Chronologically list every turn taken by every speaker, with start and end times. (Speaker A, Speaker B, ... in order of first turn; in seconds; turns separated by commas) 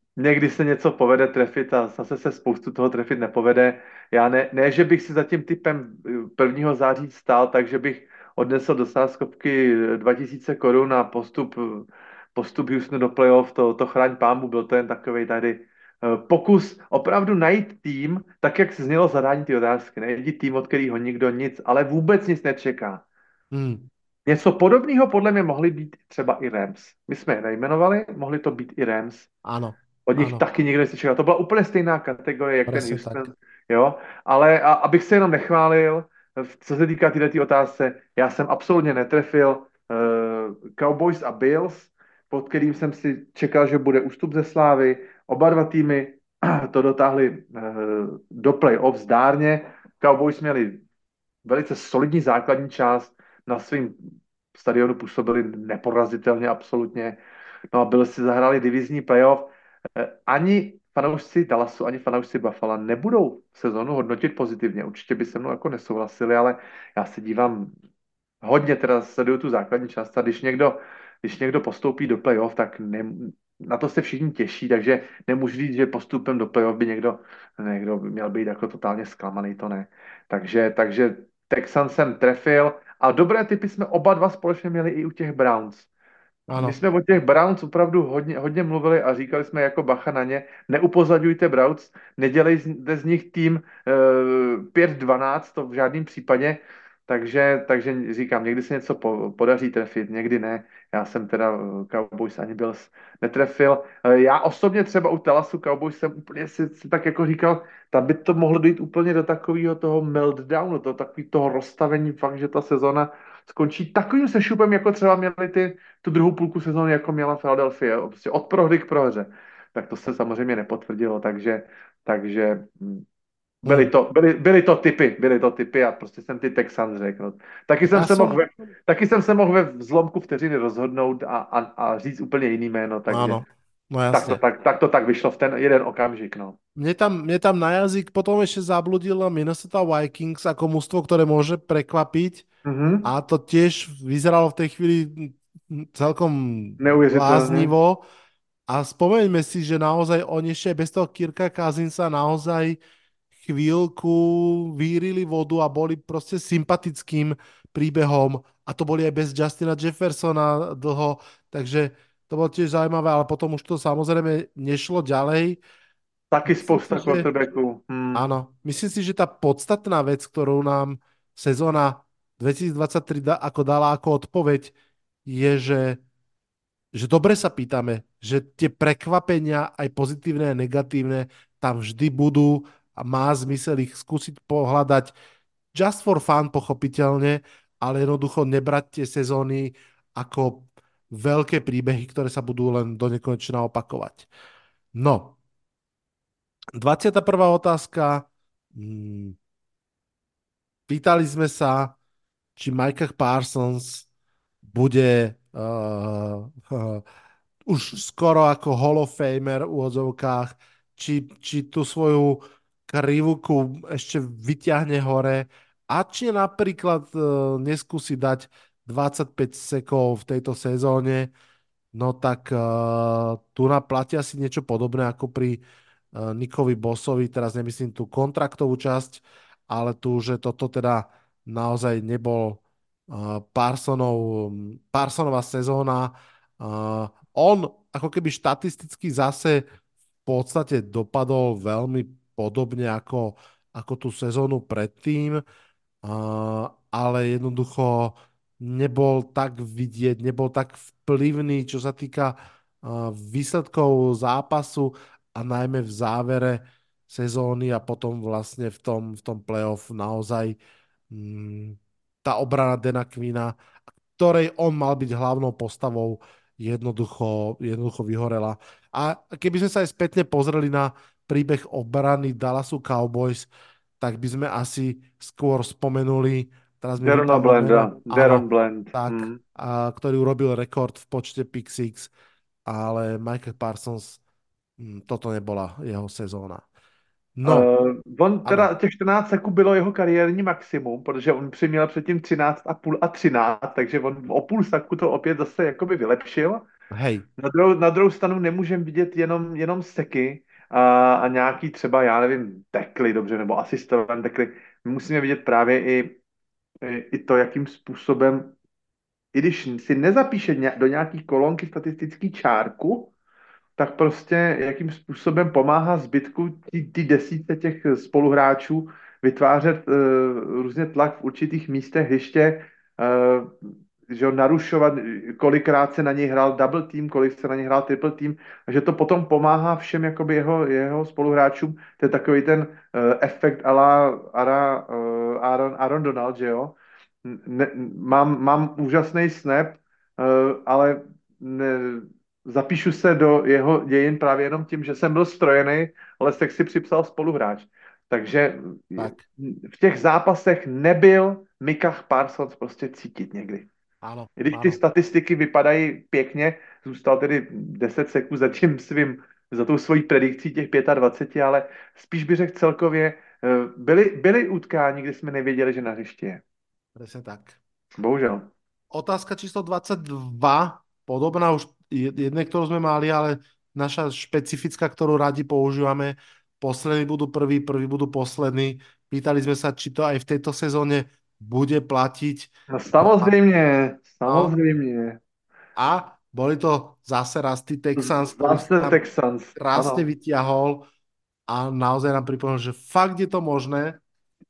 Speaker A: 0.2-23.0, Speaker B: 23.5-23.9, Speaker A: 24.3-29.3, Speaker B: 29.4-30.4, Speaker A: 30.1-50.8, Speaker B: 32.7-33.3, Speaker A: 51.5-54.0, Speaker A: 54.5-57.2, Speaker A: 57.7-67.7, Speaker A: 68.4-85.9, Speaker B: 86.5-86.8, Speaker A: 86.6-123.0, Speaker A: 123.6-133.4, Speaker B: 123.7-123.9, Speaker B: 127.9-128.4, Speaker B: 133.1-134.4, Speaker A: 134.1-136.6, Speaker B: 136.8-142.5, Speaker A: 142.7-143.1, Speaker B: 143.0-148.0, Speaker A: 146.8-147.7, Speaker B: 148.7-152.8, Speaker B: 153.4-165.6, Speaker A: 166.3-168.2, Speaker B: 166.5-167.3, Speaker B: 168.1-174.7, Speaker B: 175.3-176.0, Speaker B: 176.9-185.1, Speaker B: 185.7-194.3, Speaker B: 194.9-195.4, Speaker B: 196.8-199.4, Speaker B: 200.9-202.0, Speaker B: 202.6-204.1, Speaker B: 204.7-207.0, Speaker B: 207.7-221.3, Speaker B: 221.9-225.6, Speaker B: 226.1-239.7, Speaker B: 240.3-245.4, Speaker B: 246.0-260.6, Speaker B: 261.1-263.6, Speaker B: 264.2-282.1, Speaker A: 277.0-279.4, Speaker B: 282.7-284.2, Speaker B: 284.8-286.7, Speaker B: 287.4-287.7, Speaker A: 287.4-296.6, Speaker B: 296.9-297.3, Speaker A: 297.4-306.2, Speaker A: 306.8-308.5, Speaker A: 309.3-313.1, Speaker A: 313.8-353.7, Speaker B: 354.0-354.8, Speaker A: 354.4-366.4, Speaker B: 367.0-367.6, Speaker A: 368.0-368.5, Speaker B: 368.9-383.3, Speaker A: 382.7-385.2, Speaker B: 384.3-384.5, Speaker B: 385.8-389.0, Speaker A: 388.0-390.1, Speaker B: 389.6-390.9, Speaker B: 391.5-394.0